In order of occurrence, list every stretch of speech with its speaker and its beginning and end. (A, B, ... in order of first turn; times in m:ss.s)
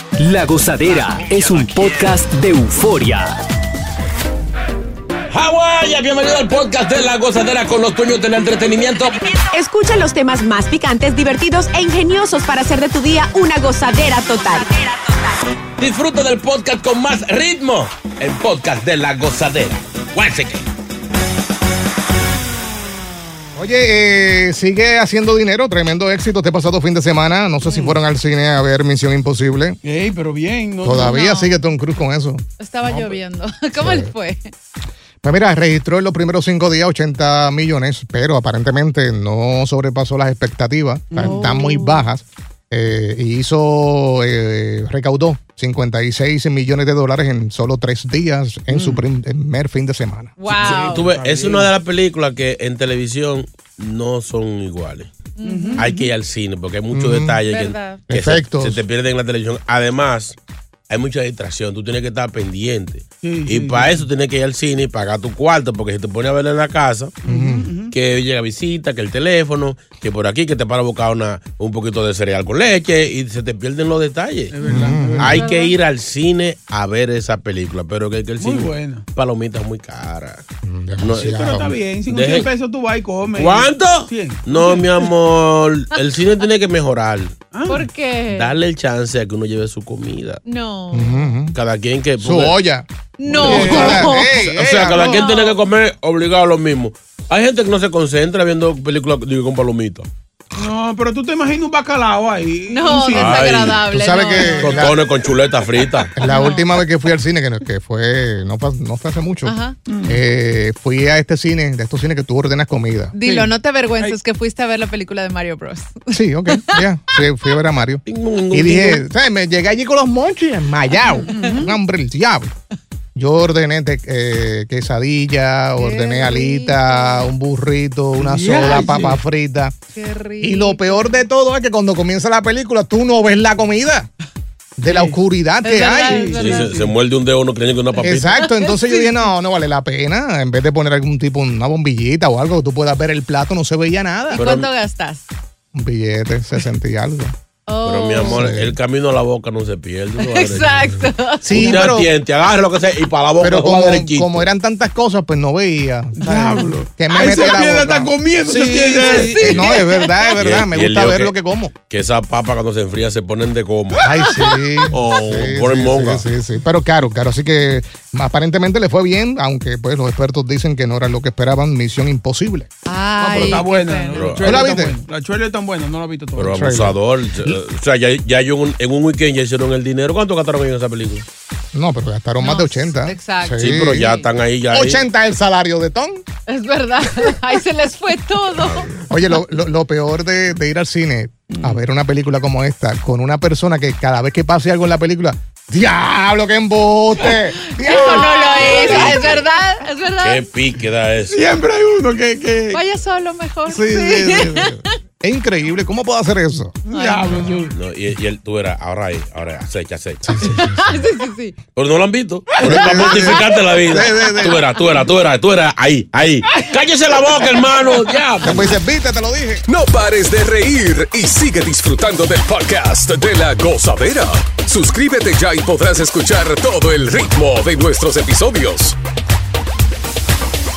0:00.2-0:03.4 A
0:05.3-0:09.2 B
0:09.3-0:14.9 C
0:15.8-0:20.7 B
0:23.6-0:29.8 D
0:27.7-0:28.0 E
0:29.8-0:31.2 E
0:30.8-0:33.2 D
0:31.0-0:31.6 F
0:32.6-0:34.5 F
0:33.8-0:34.1 D
0:35.2-0:50.4 D
0:41.1-0:41.5 E
0:41.2-0:42.1 F
0:48.7-0:49.0 E
0:50.4-0:51.0 F
0:50.5-0:51.7 E
0:50.6-0:55.1 B
0:55.4-0:55.9 F
0:55.4-0:56.1 E
0:55.8-1:00.4 B
0:56.9-0:57.4 D
0:57.5-0:58.0 F
0:58.1-0:58.8 D
1:00.9-1:07.2 B
1:03.2-1:04.1 E
1:07.2-1:07.9 E
1:07.2-1:07.7 D
1:07.9-1:14.6 B
1:14.5-1:15.4 E
1:14.7-1:15.4 D
1:15.2-1:20.4 B
1:15.3-1:15.8 F
1:18.4-1:19.0 E
1:20.6-1:21.8 D
1:21.0-1:21.4 B
1:21.2-1:25.1 E
1:22.1-1:22.5 B
1:23.3-1:27.4 B
1:27.5-1:27.8 E
1:27.7-1:28.5 F
1:28.3-1:30.4 B
1:30.4-1:31.3 F
1:30.9-1:31.5 D
1:31.5-1:32.6 B
1:32.2-1:32.8 D
1:33.2-1:34.5 F
1:33.3-1:40.1 B
1:33.4-1:33.9 E
1:33.4-1:35.2 D
1:35.0-1:35.6 F
1:40.5-1:43.4 E
1:42.7-1:45.0 F
1:43.1-1:43.8 B
1:43.9-1:45.0 D
1:44.4-1:46.1 B
1:46.2-1:53.1 D
1:46.2-1:46.8 F
1:49.4-1:49.8 F
1:49.9-1:50.2 E
1:53.1-1:56.8 F
1:56.1-2:02.5 D
1:58.1-1:59.0 B
2:01.3-2:01.7 E
2:03.2-2:09.8 D
2:05.8-2:07.3 F
2:08.2-2:09.2 E
2:09.9-2:11.2 F
2:10.4-2:14.1 D
2:14.8-2:16.5 D
2:14.9-2:15.1 E
2:15.6-2:16.8 F
2:16.1-2:16.9 E
2:16.4-2:18.4 B
2:18.0-2:19.2 F
2:18.0-2:24.4 D
2:24.3-2:25.2 F
2:24.4-2:24.7 B
2:25.7-2:27.3 D
2:27.7-2:28.5 F
2:27.8-2:34.5 B
2:28.2-2:28.8 D
2:30.2-2:31.8 F
2:31.4-2:32.1 D
2:33.4-2:41.7 D
2:36.2-2:39.4 E
2:38.9-2:40.4 F
2:39.4-2:39.8 B
2:40.4-2:41.3 B
2:41.9-2:44.1 B
2:44.0-2:52.7 D
2:44.9-2:46.2 B
2:52.8-2:54.4 F
2:53.2-2:56.6 E
2:54.1-2:54.6 B
2:54.4-2:55.0 D
2:56.4-3:01.2 B
2:56.4-2:57.6 D
3:01.7-3:04.1 D
3:02.4-3:04.2 F
3:03.6-3:05.0 B
3:04.7-3:06.2 D
3:06.5-3:08.9 F
3:09.1-3:19.4 D
3:11.5-3:11.8 E
3:17.6-3:20.4 F
3:18.0-3:18.9 E
3:18.6-3:19.4 B
3:20.2-3:21.5 B
3:21.3-3:22.8 E
3:22.7-3:24.8 F
3:23.7-3:26.8 D
3:26.9-3:27.7 E
3:26.9-3:27.4 F
3:27.7-3:30.6 B
3:30.3-3:31.0 D
3:30.5-3:31.6 F
3:31.8-3:38.7 B
3:32.6-3:32.9 E
3:32.6-3:34.7 D
3:38.4-3:39.6 D
3:39.7-3:49.0 G